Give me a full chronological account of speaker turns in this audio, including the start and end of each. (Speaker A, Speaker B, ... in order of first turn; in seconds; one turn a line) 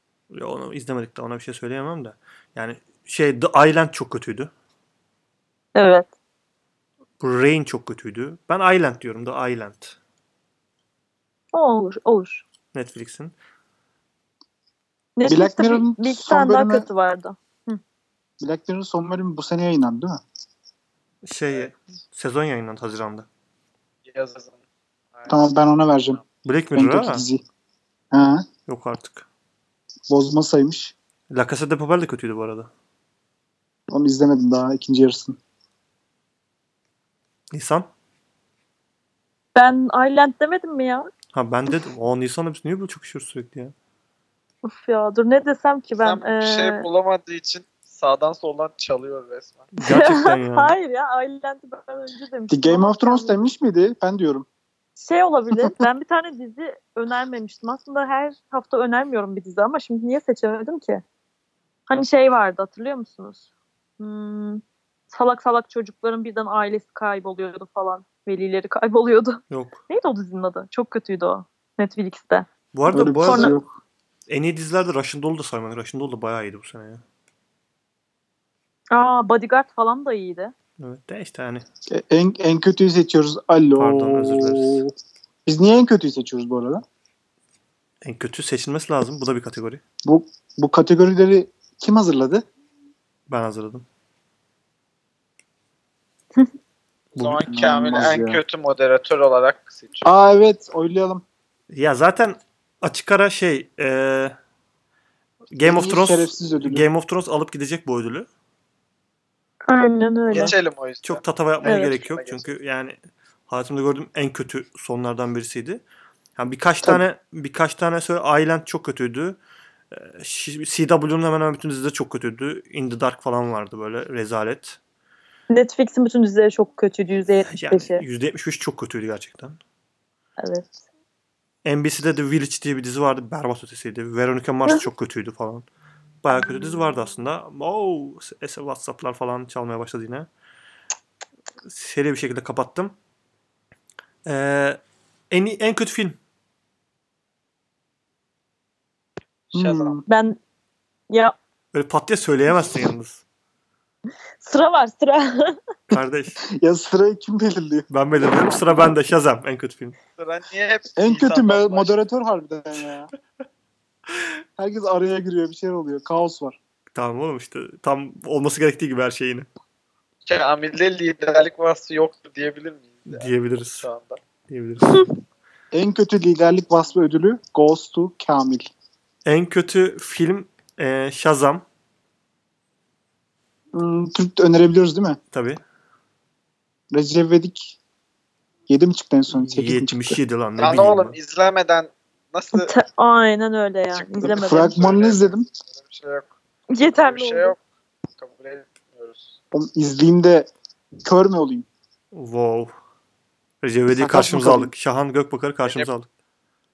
Speaker A: 0.3-4.5
Speaker B: 5.7-6.1
Speaker A: 7.2-10.0
Speaker B: 11.5-12.4
Speaker A: 12.7-13.3
Speaker B: 15.2-17.8
Speaker C: 15.2-16.9
Speaker C: 18.4-20.2
Speaker A: 21.2-23.3
Speaker D: 24.0-24.6
Speaker D: 25.1-25.5
Speaker C: 25.3-26.2
Speaker A: 26.4-27.2
Speaker C: 26.8-27.4
Speaker C: 28.1-28.4
Speaker A: 28.7-29.3
Speaker C: 30.1-30.9
Speaker A: 31.3-32.7
Speaker C: 33.9-35.4
Speaker A: 37.5-37.9
Speaker B: 39.5-41.1
Speaker A: 41.3-43.7
Speaker B: 44.6-46.8
Speaker D: 46.0-49.7
Speaker A: 49.7-50.7
Speaker B: 49.8-53.4
Speaker C: 52.5-54.5
Speaker B: 55.0-61.0
Speaker B: 61.9-63.5
Speaker B: 64.0-72.5
Speaker A: 69.5-69.8
Speaker A: 72.7-73.6
Speaker C: 72.9-73.7
Speaker B: 73.2-73.5
Speaker A: 74.3-77.0
Speaker B: 78.9-80.5
Speaker A: 80.8-81.7
Speaker C: 81.9-84.9
Speaker A: 83.8-84.8
Speaker C: 85.5-86.8
Speaker A: 88.0-89.8
Speaker C: 90.0-92.4
Speaker A: 93.3-93.8
Speaker D: 97.1-100.1
Speaker A: 97.2-97.4
Speaker C: 97.5-98.4
Speaker C: 100.0-101.2
Speaker A: 101.7-104.3
Speaker A: 105.5-108.3
Speaker C: 105.6-106.8
Speaker B: 109.6-110.5
Speaker D: 110.3-112.5
Speaker A: 111.0-115.8
Speaker B: 111.6-111.9
Speaker A: 116.4-119.4
Speaker A: 119.9-124.8
Speaker B: 125.5-128.0
Speaker A: 127.5-129.6
Speaker B: 130.4-130.8
Speaker A: 131.6-135.7
Speaker A: 136.2-140.3
Speaker A: 141.6-142.9
Speaker A: 144.2-144.8
Speaker A: 145.3-146.2
Speaker D: 149.5-150.0
Speaker C: 149.5-150.0
Speaker B: 150.1-150.4
Speaker B: 151.1-151.3
Speaker A: 151.7-153.2
Speaker B: 154.4-155.6
Speaker A: 155.9-156.4
Speaker C: 156.6-157.9
Speaker A: 157.9-160.0
Speaker D: 160.2-161.9
Speaker C: 161.0-163.1
Speaker C: 164.6-166.6
Speaker A: 166.9-169.5
Speaker D: 170.2-174.2
Speaker A: 173.1-173.9
Speaker A: 174.5-175.1
Speaker C: 175.7-178.7
Speaker A: 179.2-181.6
Speaker C: 183.7-185.2
Speaker A: 185.3-185.6
Speaker C: 186.9-187.8
Speaker C: 188.7-190.2
Speaker A: 189.3-191.2
Speaker D: 190.6-192.7
Speaker B: 192.5-194.8
Speaker D: 193.9-197.6
Speaker C: 194.2-195.5
Speaker B: 196.7-197.5
Speaker D: 198.2-199.4
Speaker C: 199.5-200.5
Speaker C: 201.0-201.7
Speaker A: 202.1-202.7
Speaker A: 203.6-206.1
Speaker C: 203.9-204.7